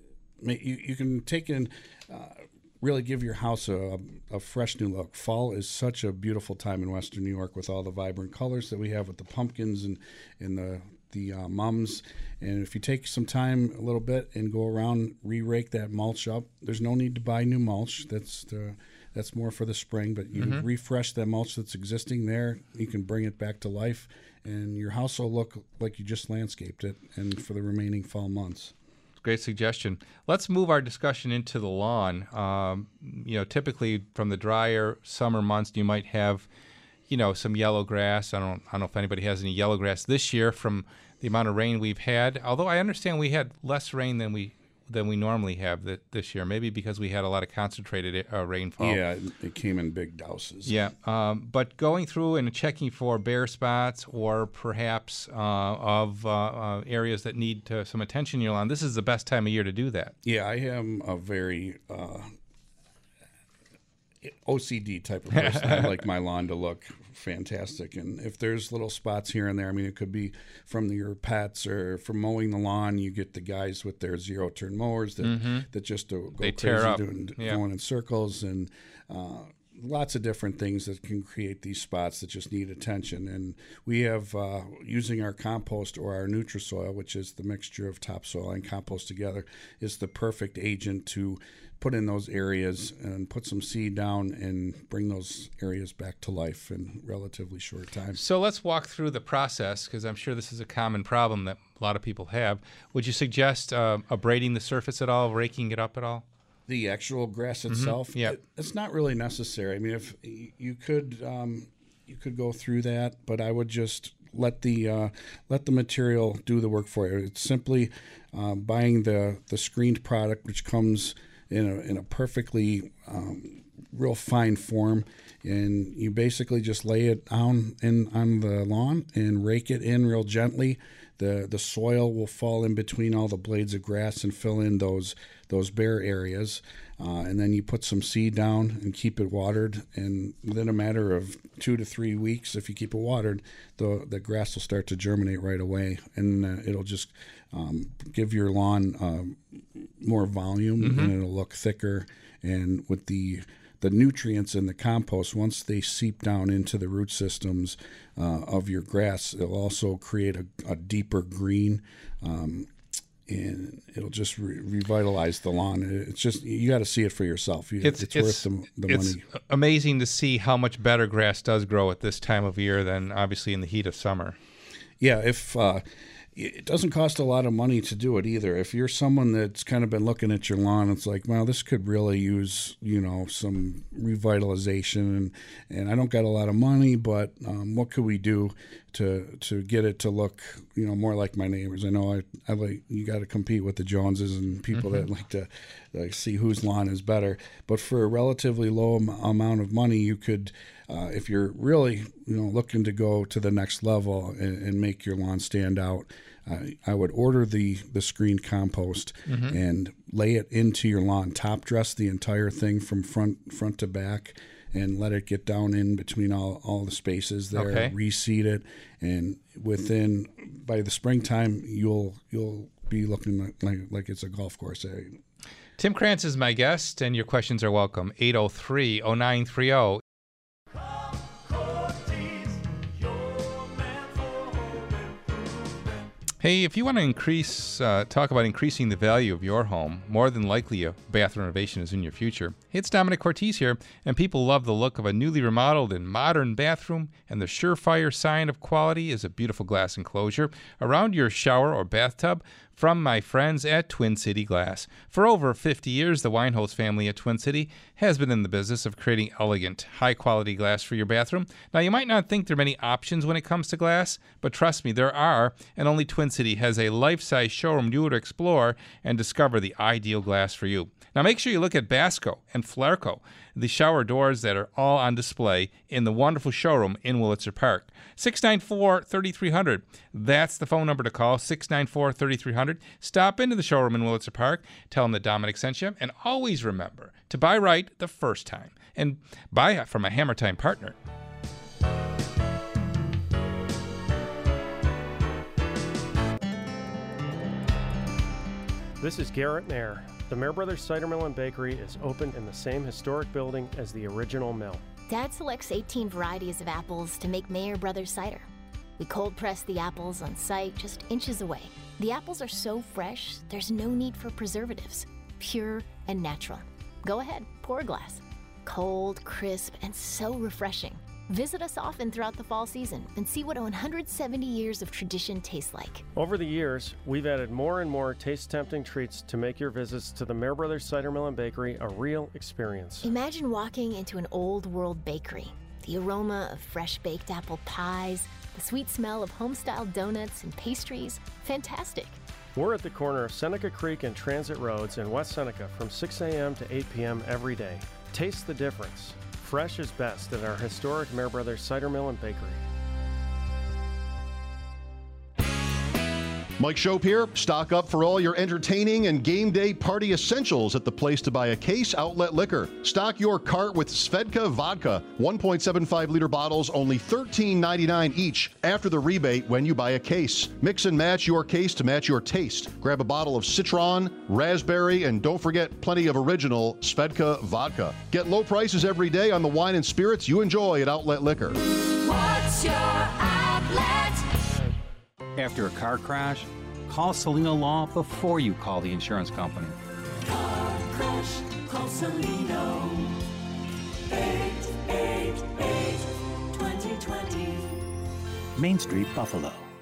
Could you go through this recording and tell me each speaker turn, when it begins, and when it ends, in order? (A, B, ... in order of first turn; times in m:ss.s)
0:00.4-0:28.7 A
0:20.4-0:20.6 B
0:29.2-0:36.4 B
0:37.1-0:49.0 B
0:48.8-0:50.8 A
0:50.6-1:00.1 B
1:00.2-1:02.3 A
1:04.2-1:38.2 A
1:05.3-1:05.9 B
1:15.2-1:15.6 B
1:16.4-1:17.6 B
1:38.2-1:46.2 B
1:46.7-2:42.7 A
1:47.7-1:48.3 B
2:30.8-2:31.1 B
2:43.2-2:49.2 A
2:47.8-2:54.4 B
2:55.0-3:45.2 A
3:14.7-3:15.0 B
3:29.3-3:29.6 B
3:37.5-3:37.9 B
3:45.8-3:50.0 B
3:50.7-3:56.0 C
3:56.4-4:51.0 B
4:59.0-5:04.8 D
5:05.1-5:08.5 E
5:09.0-5:26.0 E
5:26.2-5:33.1 D
5:33.0-5:42.2 E
5:42.5-5:52.6 D
5:56.6-6:21.6 F
6:25.4-6:29.8 G
6:31.8-6:32.8 C
6:34.1-6:34.7 C
6:35.3-6:35.6 C
6:36.6-6:37.5 C
6:38.6-6:39.7 G